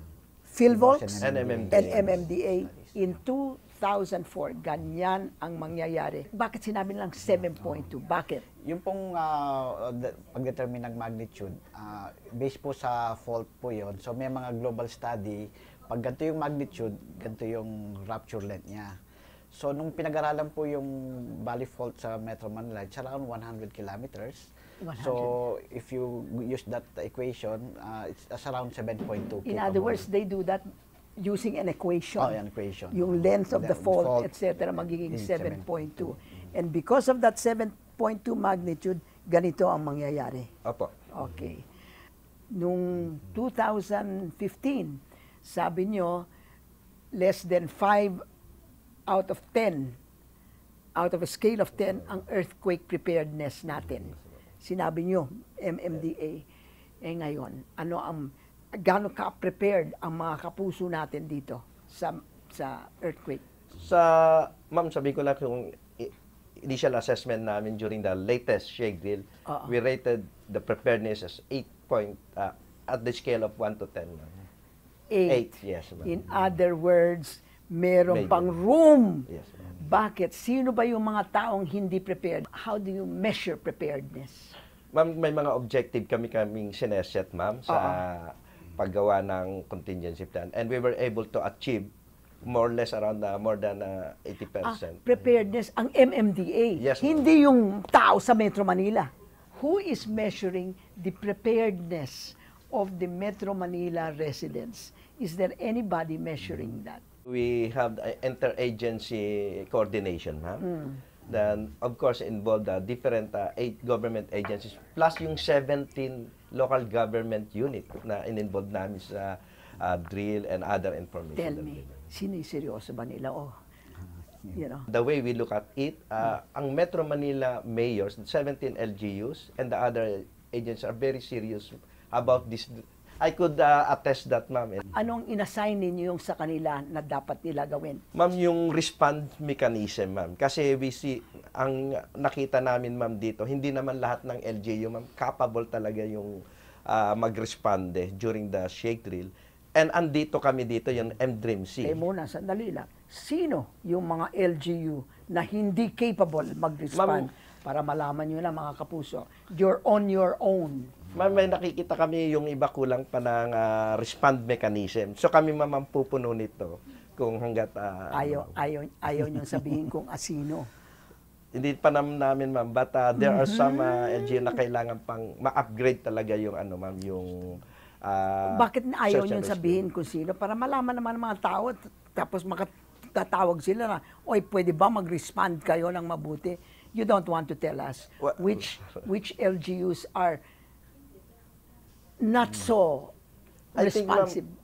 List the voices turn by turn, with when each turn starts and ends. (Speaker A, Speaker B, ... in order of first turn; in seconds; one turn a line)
Speaker A: 0.5-1.2
Speaker B: 0.7-2.2
Speaker C: 1.2-2.2
Speaker A: 1.7-8.4
Speaker B: 8.6-18.9
Speaker B: 19.5-30.1
Speaker A: 24.8-25.3
Speaker A: 29.4-30.6
Speaker A: 31.2-32.4
Speaker B: 32.2-34.3
Speaker A: 32.9-40.5
Speaker B: 35.0-36.2
Speaker C: 40.6-40.9
Speaker A: 41.1-41.6
Speaker A: 42.5-46.3
Speaker A: 47.1-48.2
Speaker A: 49.1-50.0
Speaker A: 50.9-56.4
Speaker A: 57.0-63.4
Speaker C: 63.7-74.4
Speaker A: 69.5-69.7
Speaker A: 75.1-84.5
Speaker C: 75.3-76.2
Speaker C: 78.1-78.5
Speaker C: 79.3-79.7
Speaker C: 84.9-91.9
Speaker A: 87.7-88.0
Speaker C: 92.4-95.0
Speaker A: 94.6-107.0
Speaker C: 96.8-97.2
Speaker C: 107.3-110.6
Speaker A: 110.6-111.0
Speaker C: 111.2-121.9
Speaker A: 121.3-123.5
Speaker A: 124.5-124.9
Speaker C: 124.9-134.8
Speaker A: 134.9-138.0
Speaker C: 138.1-152.0
Speaker A: 151.8-160.9
Speaker C: 156.9-157.3
Speaker C: 161.1-168.6
Speaker A: 168.1-170.7
Speaker C: 171.5-179.8
Speaker A: 178.5-190.4
Speaker A: 192.2-193.1
Speaker C: 193.7-194.4
Speaker A: 193.8-194.5